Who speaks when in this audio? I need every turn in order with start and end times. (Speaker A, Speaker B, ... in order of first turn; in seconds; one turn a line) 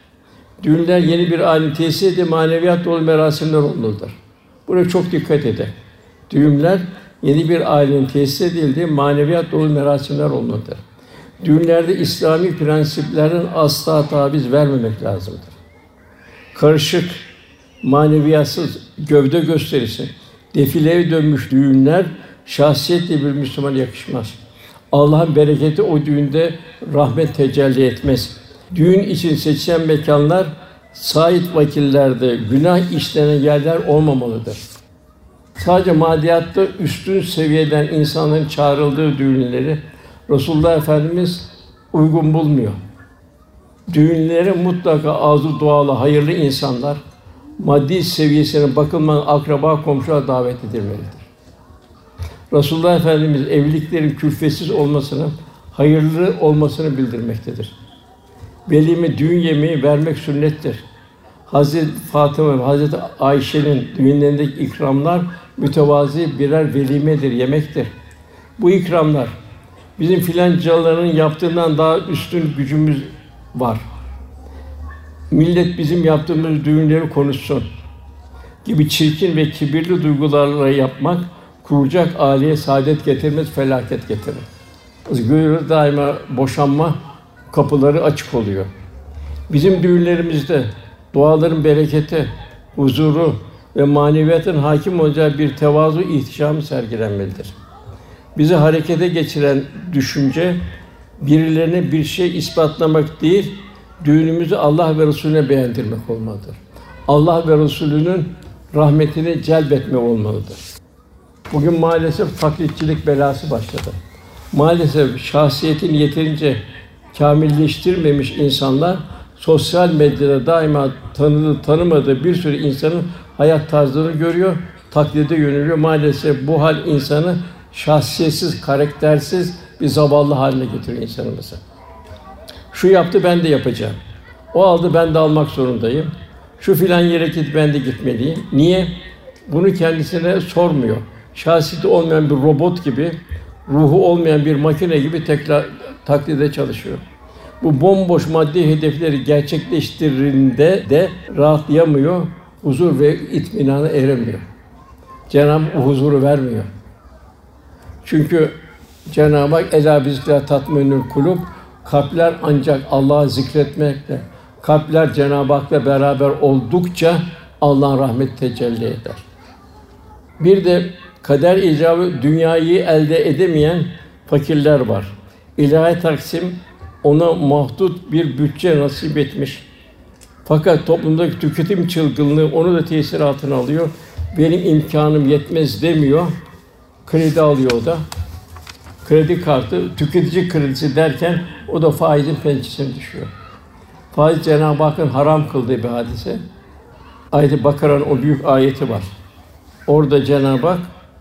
Speaker A: 0.6-5.7
Speaker A: 6.3-10.8
Speaker A: 11.4-15.6
Speaker A: 16.5-17.2
Speaker A: 17.8-24.4
Speaker A: 24.9-34.6
Speaker A: 35.6-42.8
Speaker A: 43.9-47.0
Speaker A: 47.6-51.3
Speaker A: 52.5-57.8
Speaker A: 58.7-60.9
Speaker A: 61.5-67.9
Speaker A: 68.6-69.3
Speaker A: 70.0-73.8
Speaker A: 75.3-77.7
Speaker A: 78.6-84.5
Speaker A: 85.1-87.0
Speaker A: 87.5-88.7
Speaker A: 89.5-97.5
Speaker A: 98.4-100.6
Speaker A: 101.2-110.6
Speaker A: 111.5-114.0
Speaker A: 114.5-116.6
Speaker A: 117.1-131.6
Speaker A: 132.7-134.0
Speaker A: 134.5-138.9
Speaker A: 139.5-147.0
Speaker A: 147.6-154.4
Speaker A: 155.3-156.7
Speaker A: 158.0-158.6
Speaker A: 159.1-169.2
Speaker A: 170.4-179.7
Speaker A: 180.4-186.3
Speaker A: 187.1-188.0
Speaker A: 189.0-193.3
Speaker A: 194.1-196.4
Speaker A: 197.3-199.1
Speaker A: 199.9-200.9